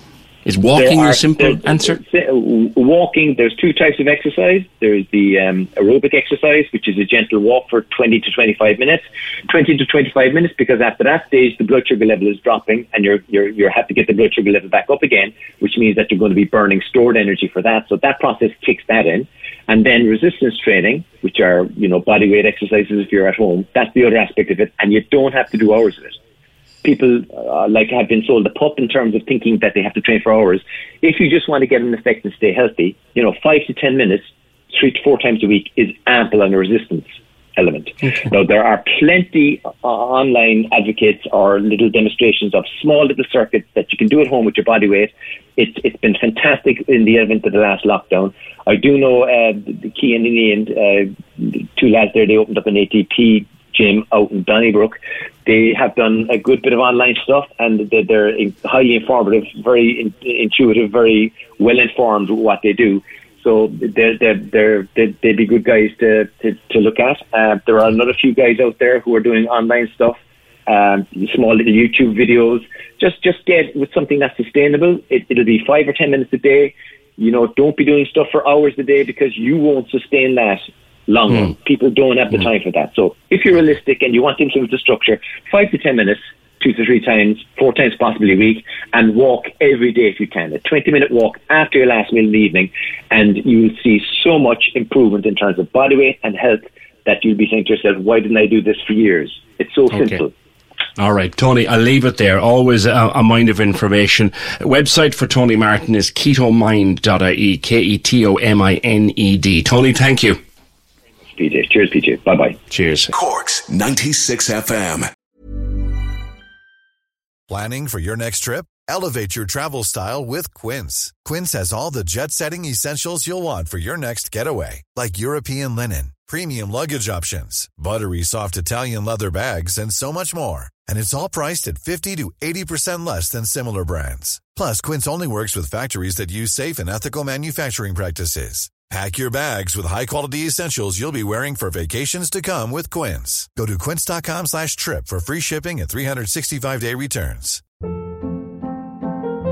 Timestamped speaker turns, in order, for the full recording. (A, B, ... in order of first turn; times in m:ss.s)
0:00.4-0:02.0 A
0:00.8-0:26.2 B
0:26.8-1:40.3 B
1:39.9-1:40.2 A
1:41.0-1:50.4 A
1:51.4-1:52.6 B
1:52.7-1:53.1 A
1:53.1-1:55.1 C
1:57.5-2:27.6 D